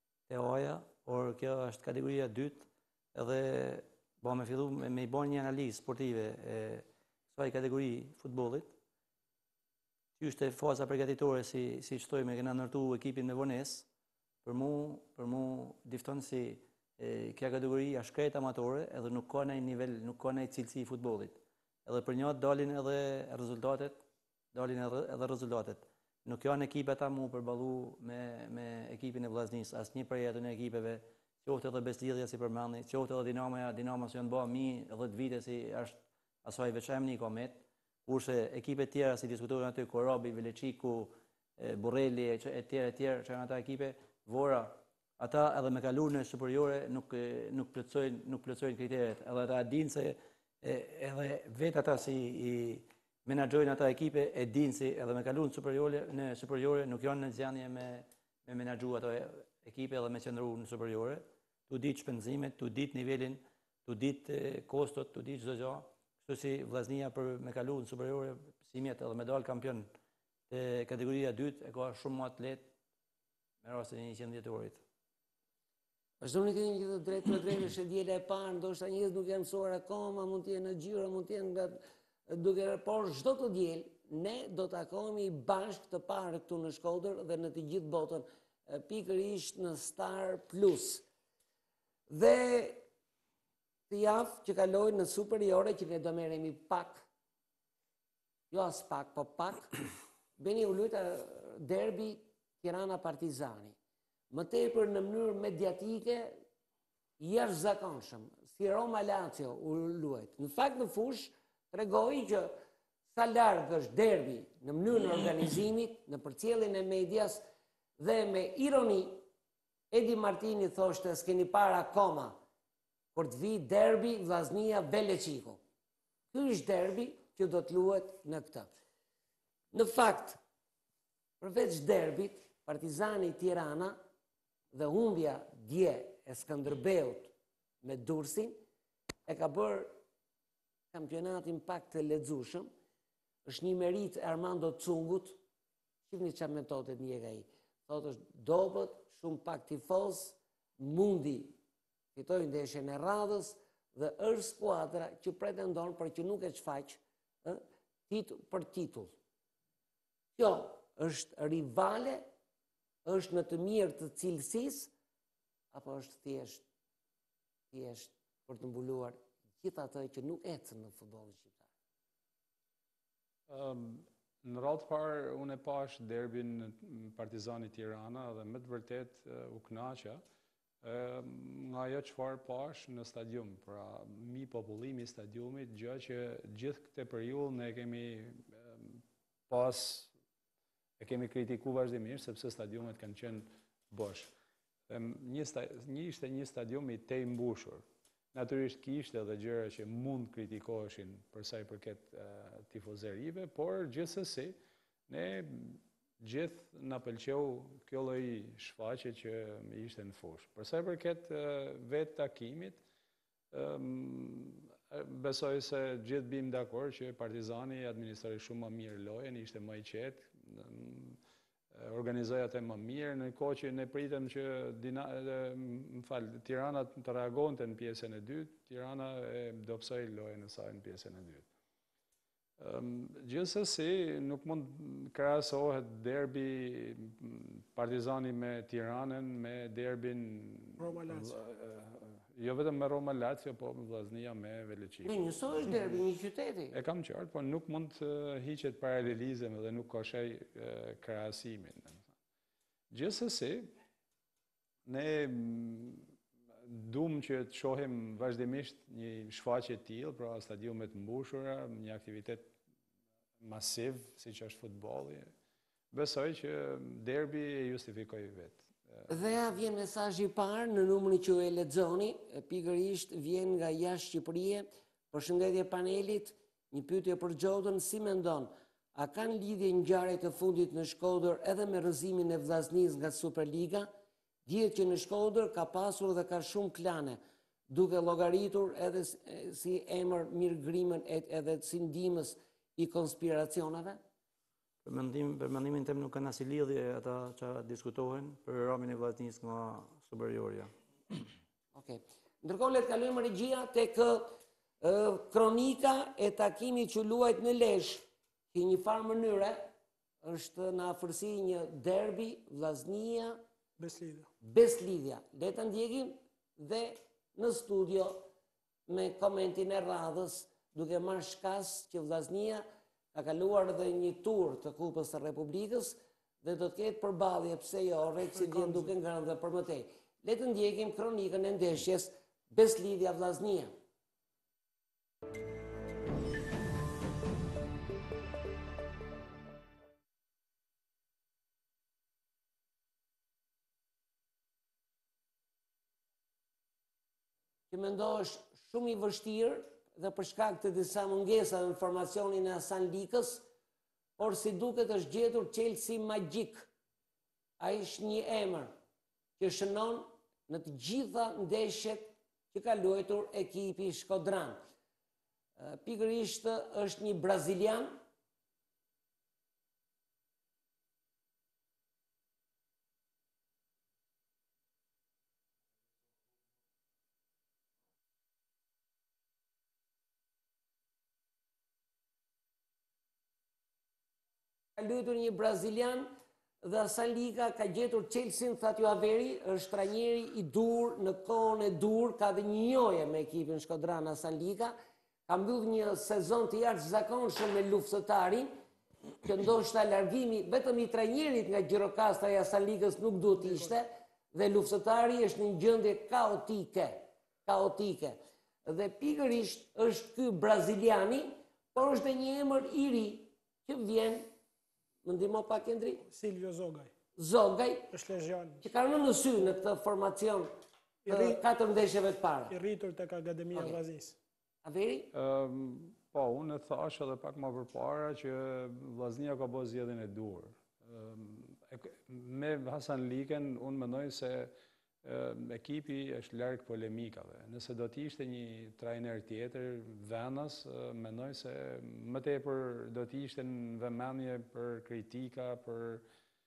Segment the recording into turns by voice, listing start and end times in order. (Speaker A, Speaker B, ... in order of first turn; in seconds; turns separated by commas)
Speaker A: 0.3-8.7, Speaker A: 10.2-13.8, Speaker A: 14.4-24.0, Speaker A: 24.5-69.9, Speaker A: 70.5-72.7, Speaker A: 73.6-74.8, Speaker B: 76.2-91.0, Speaker B: 92.1-92.8, Speaker B: 93.9-97.1, Speaker B: 98.5-99.8, Speaker B: 100.4-103.8, Speaker B: 104.3-106.4, Speaker B: 107.2-112.5, Speaker B: 113.1-117.4, Speaker B: 118.0-119.2, Speaker B: 119.9-122.4, Speaker B: 123.1-125.6, Speaker B: 126.3-128.7, Speaker B: 129.7-130.4, Speaker B: 131.4-134.0, Speaker B: 134.7-138.6, Speaker B: 139.2-139.9, Speaker B: 140.9-142.7, Speaker B: 143.4-145.4, Speaker B: 146.1-151.5, Speaker B: 152.1-159.1, Speaker B: 160.3-162.2, Speaker B: 163.0-164.9, Speaker B: 165.7-166.6, Speaker B: 167.7-171.7, Speaker C: 173.5-180.2, Speaker C: 180.8-190.1, Speaker C: 191.0-194.3, Speaker C: 194.9-204.6, Speaker C: 205.1-212.8, Speaker C: 213.5-221.2, Speaker C: 221.7-231.5, Speaker C: 232.6-245.3, Speaker D: 240.8-241.3, Speaker B: 245.0-246.8, Speaker C: 246.7-252.0, Speaker C: 252.9-253.7, Speaker C: 254.8-256.1, Speaker C: 256.6-262.5, Speaker C: 263.4-265.3, Speaker C: 265.9-269.2, Speaker B: 269.1-283.9, Speaker B: 284.4-287.2, Speaker B: 287.7-294.0, Speaker A: 294.8-300.7, Speaker B: 301.7-313.4, Speaker D: 313.8-314.3, Speaker B: 314.4-318.3, Speaker B: 318.9-333.7, Speaker D: 328.4-328.9, Speaker B: 347.7-353.4, Speaker B: 354.2-356.7, Speaker B: 357.6-358.7, Speaker B: 359.4-364.6, Speaker B: 365.6-368.0, Speaker B: 384.8-386.1, Speaker B: 386.6-394.8, Speaker B: 395.3-398.5, Speaker B: 399.2-414.3, Speaker D: 403.4-403.7, Speaker B: 415.0-416.0, Speaker D: 416.1-416.9, Speaker B: 417.1-417.9, Speaker D: 417.9-418.6, Speaker B: 418.6-420.5, Speaker D: 421.0-421.4, Speaker B: 421.1-422.5, Speaker D: 422.5-424.2, Speaker B: 423.5-423.8, Speaker B: 424.6-425.1, Speaker C: 425.1-446.0